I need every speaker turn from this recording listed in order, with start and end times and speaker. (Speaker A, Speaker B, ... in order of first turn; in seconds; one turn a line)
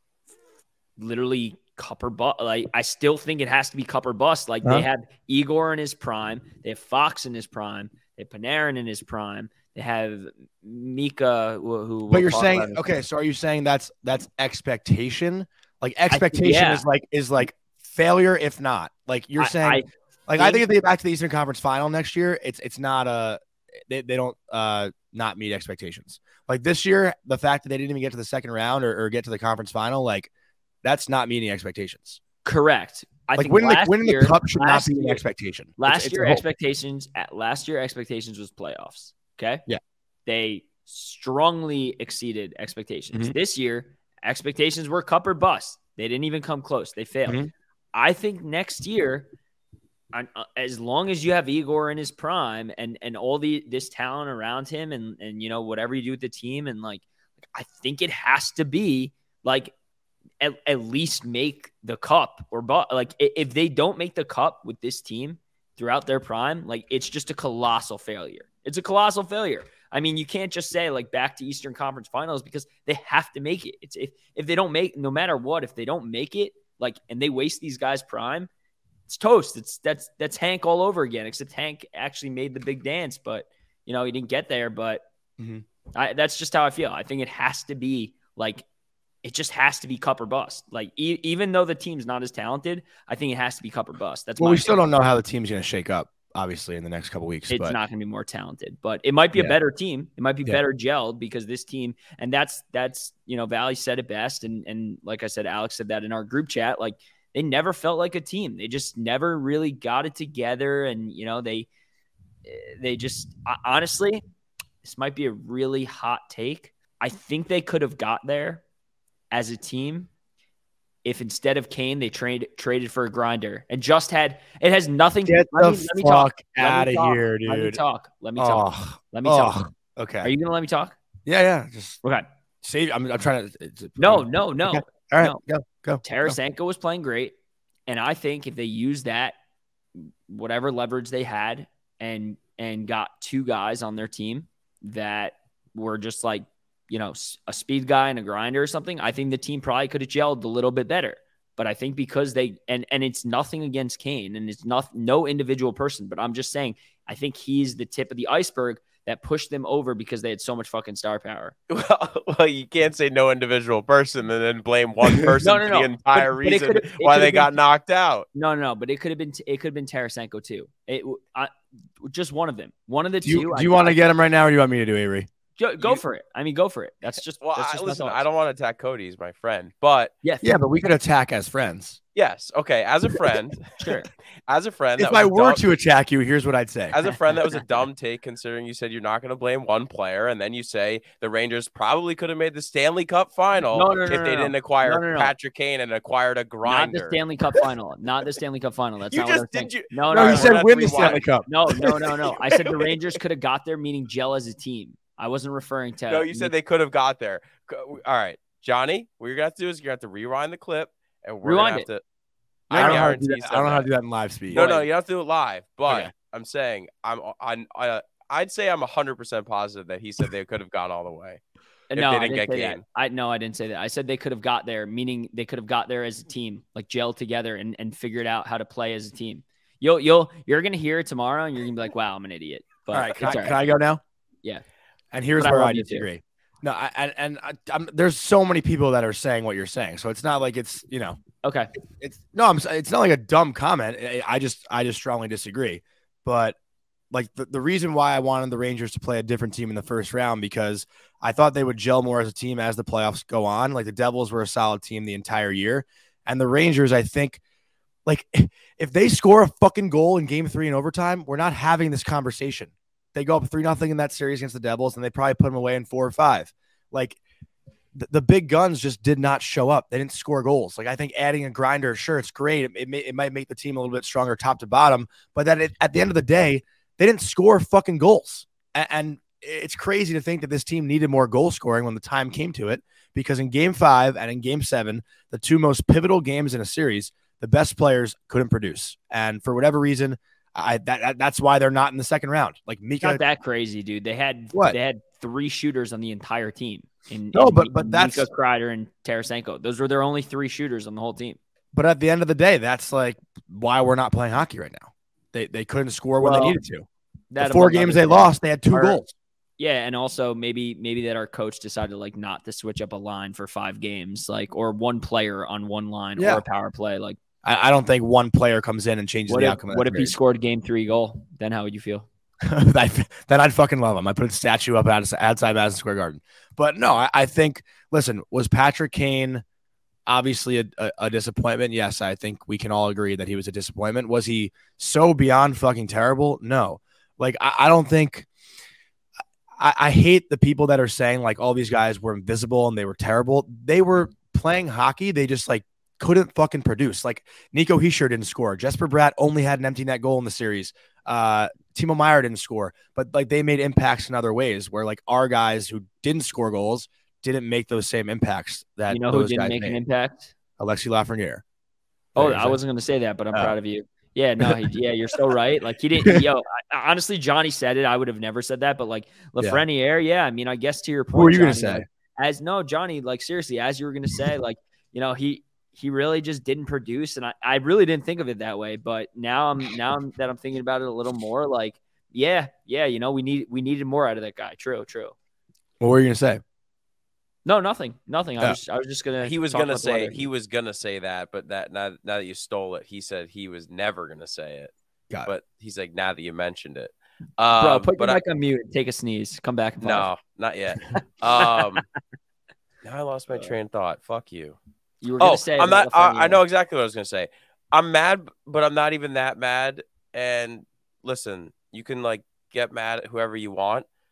Speaker A: 1.0-12.8
Speaker B: 12.1-30.3
Speaker A: 16.1-16.8
Speaker A: 19.4-20.6
Speaker B: 30.8-32.2
Speaker A: 32.4-35.2
Speaker B: 33.4-36.4
Speaker A: 35.8-39.6
Speaker A: 40.2-47.4
Speaker A: 47.9-49.3
Speaker A: 50.1-59.7
Speaker A: 60.4-78.5
Speaker A: 79.1-85.0
Speaker B: 85.4-85.6
Speaker A: 85.9-88.6
Speaker A: 89.2-94.8
Speaker B: 94.4-97.8
Speaker A: 97.5-111.7
Speaker A: 112.5-114.2
Speaker A: 114.8-118.6
Speaker A: 119.3-120.1
Speaker A: 121.0-129.7
Speaker B: 125.2-127.8
Speaker B: 128.4-130.3
Speaker A: 130.2-131.0
Speaker B: 131.2-132.0
Speaker B: 132.6-136.4
Speaker A: 134.0-135.4
Speaker A: 136.0-137.3
Speaker A: 137.9-139.4
Speaker A: 139.9-161.5
Speaker C: 161.7-168.3
Speaker A: 165.4-167.5
Speaker A: 168.3-173.9
Speaker B: 173.2-175.3
Speaker A: 175.6-178.2
Speaker C: 177.4-180.1
Speaker A: 180.2-180.5
Speaker B: 180.4-182.0
Speaker C: 182.1-183.9
Speaker A: 183.8-184.1
Speaker C: 184.5-185.6
Speaker B: 185.0-187.0
Speaker C: 186.9-197.2
Speaker A: 193.7-195.3
Speaker A: 196.6-206.5
Speaker C: 199.1-201.2
Speaker B: 200.1-202.8
Speaker C: 206.1-212.0
Speaker A: 211.4-211.9
Speaker A: 212.7-213.3
Speaker C: 212.7-213.9
Speaker B: 212.7-214.7
Speaker C: 214.5-221.4
Speaker A: 214.5-214.9
Speaker A: 221.9-233.6
Speaker C: 221.9-222.8
Speaker B: 232.9-234.0
Speaker B: 235.1-241.2
Speaker A: 235.4-236.1
Speaker A: 241.4-241.7
Speaker B: 241.9-246.6
Speaker B: 247.1-257.4
Speaker B: 258.1-267.2
Speaker B: 267.9-293.2
Speaker A: 293.0-301.4
Speaker B: 297.3-298.3
Speaker B: 301.7-306.9
Speaker A: 306.2-306.6
Speaker A: 307.3-309.0
Speaker B: 307.4-309.1
Speaker A: 309.6-317.2
Speaker B: 316.2-316.4
Speaker B: 317.4-320.1
Speaker A: 319.3-322.1
Speaker B: 322.4-329.4
Speaker B: 330.1-338.3
Speaker B: 339.6-359.8
Speaker A: 358.9-360.3
Speaker B: 360.6-361.4
Speaker A: 362.1-385.1
Speaker B: 362.1-362.6
Speaker B: 371.1-371.8
Speaker B: 385.8-386.4
Speaker A: 387.4-390.2
Speaker C: 389.2-394.7
Speaker C: 395.2-398.2
Speaker A: 397.6-400.1
Speaker C: 399.8-401.8
Speaker C: 402.8-404.6
Speaker A: 405.0-406.4
Speaker C: 405.2-413.9